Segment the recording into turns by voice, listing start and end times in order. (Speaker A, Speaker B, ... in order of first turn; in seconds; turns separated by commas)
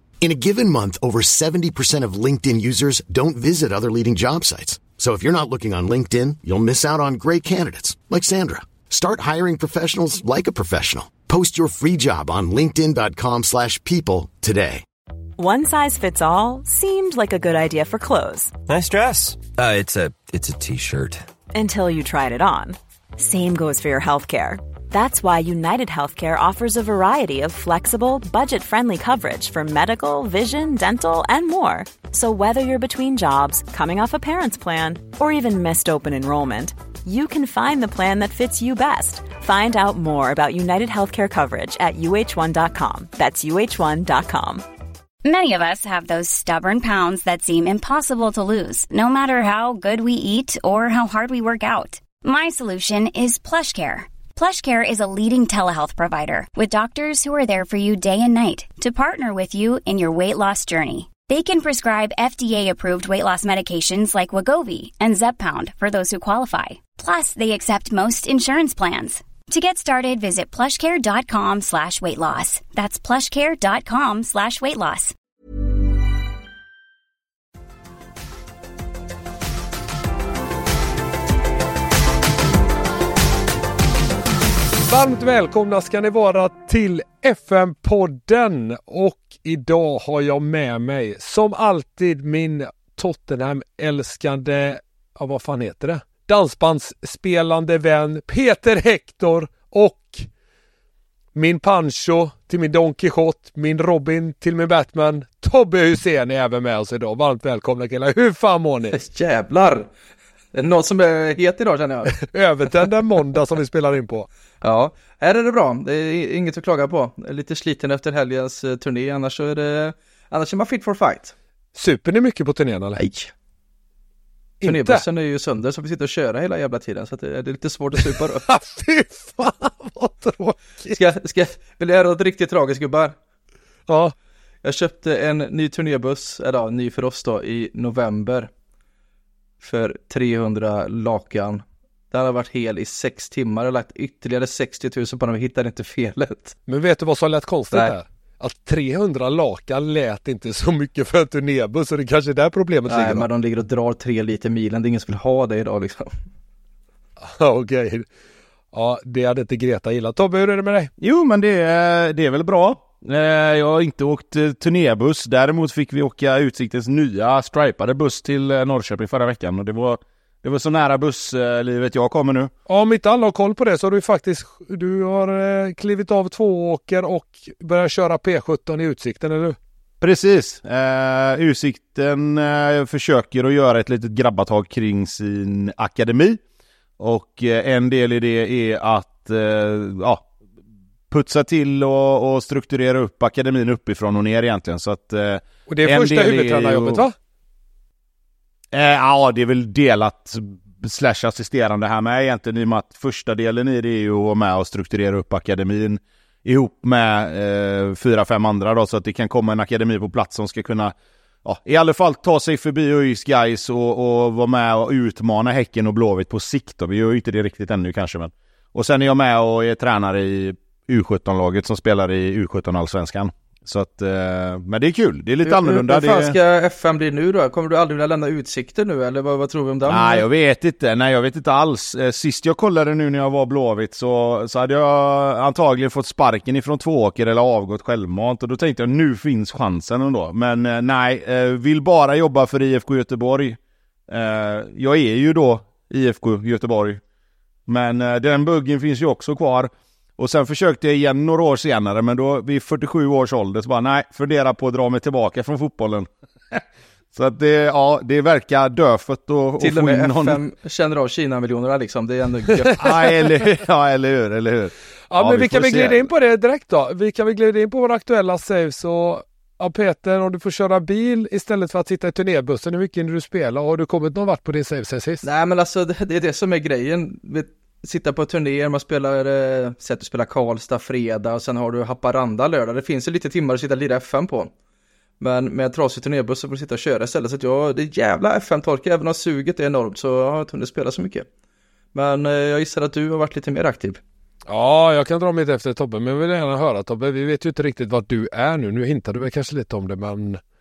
Speaker A: 0.2-14.8, Speaker B: 15.4-18.5, Speaker C: 18.7-21.2, Speaker B: 21.5-44.6, Speaker D: 45.2-75.1, Speaker E: 84.8-100.3, Speaker E: 101.3-108.9, Speaker F: 108.9-109.9, Speaker F: 110.5-112.1, Speaker E: 112.1-114.3, Speaker F: 114.6-121.3, Speaker E: 121.7-123.0, Speaker F: 123.0-123.3, Speaker E: 124.6-125.0, Speaker F: 124.6-128.4, Speaker E: 128.1-131.0, Speaker F: 130.9-133.2, Speaker E: 133.9-134.1, Speaker F: 134.6-138.5, Speaker F: 139.6-146.5, Speaker E: 146.7-153.3, Speaker F: 152.9-156.1, Speaker E: 157.2-158.1, Speaker E: 158.7-160.9, Speaker G: 161.0-172.5, Speaker E: 172.7-179.6, Speaker G: 180.0-186.4, Speaker G: 187.0-190.2, Speaker G: 191.1-197.0, Speaker E: 195.7-197.1, Speaker G: 198.7-226.4, Speaker F: 225.4-230.2, Speaker G: 229.9-247.0, Speaker G: 247.7-260.4, Speaker F: 259.6-263.0, Speaker E: 262.7-263.0, Speaker G: 262.8-266.1, Speaker E: 265.1-275.2, Speaker F: 275.2-284.5, Speaker F: 285.2-291.2, Speaker F: 291.9-294.0, Speaker E: 294.5-300.4